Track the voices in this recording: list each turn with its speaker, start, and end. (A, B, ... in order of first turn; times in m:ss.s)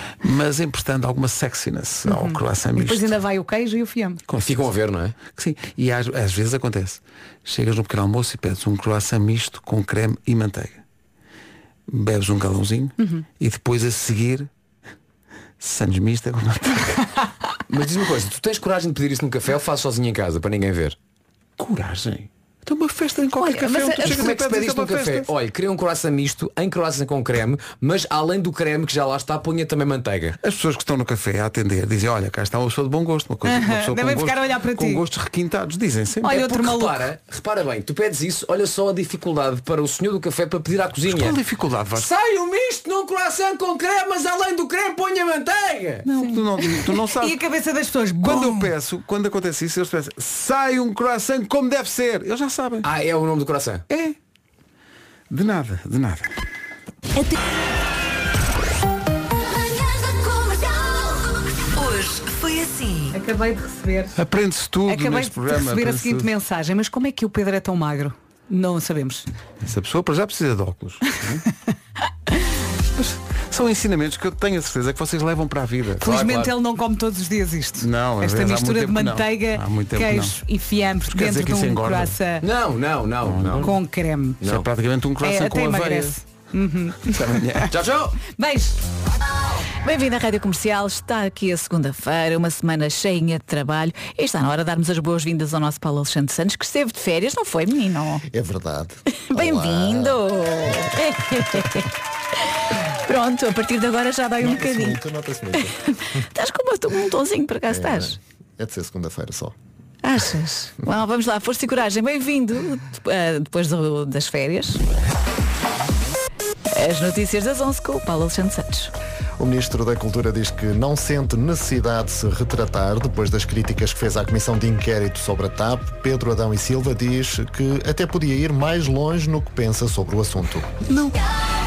0:00.2-0:03.2 A
0:02.1-0:04.2 B
0:04.3-0:04.7 A
0:04.4-0:05.1 C
0:05.3-0:10.8 A
0:11.9-0:14.5 A
0:13.0-0:13.2 B
0:15.6-0:17.0 A
0:17.7-0:21.0 C
0:21.6-0:25.3 A
0:23.4-0:24.3 B
0:24.0-0:30.4 C
0:30.4-0:36.6 A
0:33.4-0:35.0 B
0:36.2-0:37.0 B
0:36.3-0:41.4 C
0:41.1-0:42.1 A
0:41.9-0:46.0 C
0:46.0-0:47.4 A
0:46.2-0:48.7 B
0:48.2-0:52.9 A
0:52.8-0:53.8 C
0:53.9-0:54.2 A
0:55.3-0:56.3 A
0:59.9-1:01.0 D
1:01.7-1:03.1 D
1:03.1-1:04.2 B
1:04.2-1:06.3 A
1:04.9-1:09.2 B
1:09.6-1:11.4 A
1:13.0-1:16.0 A
1:16.0-1:22.4 B
1:16.0-1:16.5 C
1:17.8-1:20.4 A
1:21.1-1:22.1 A
1:22.4-1:23.7 C
1:23.2-1:23.7 A
1:23.6-1:24.4 B
1:24.4-1:26.2 A
1:25.2-1:27.7 B
1:27.1-1:27.7 A
1:27.7-1:28.2 C
1:28.3-1:28.8 B
1:29.8-1:38.2 D
1:38.3-1:40.2 E
1:39.1-1:41.8 D
1:43.0-1:45.0 D
1:44.4-1:45.7 E
1:46.2-1:48.2 D
1:47.7-1:49.5 E
1:50.0-1:54.8 D
1:56.7-1:58.9 D
1:59.4-2:10.7 E
2:10.9-2:11.3 D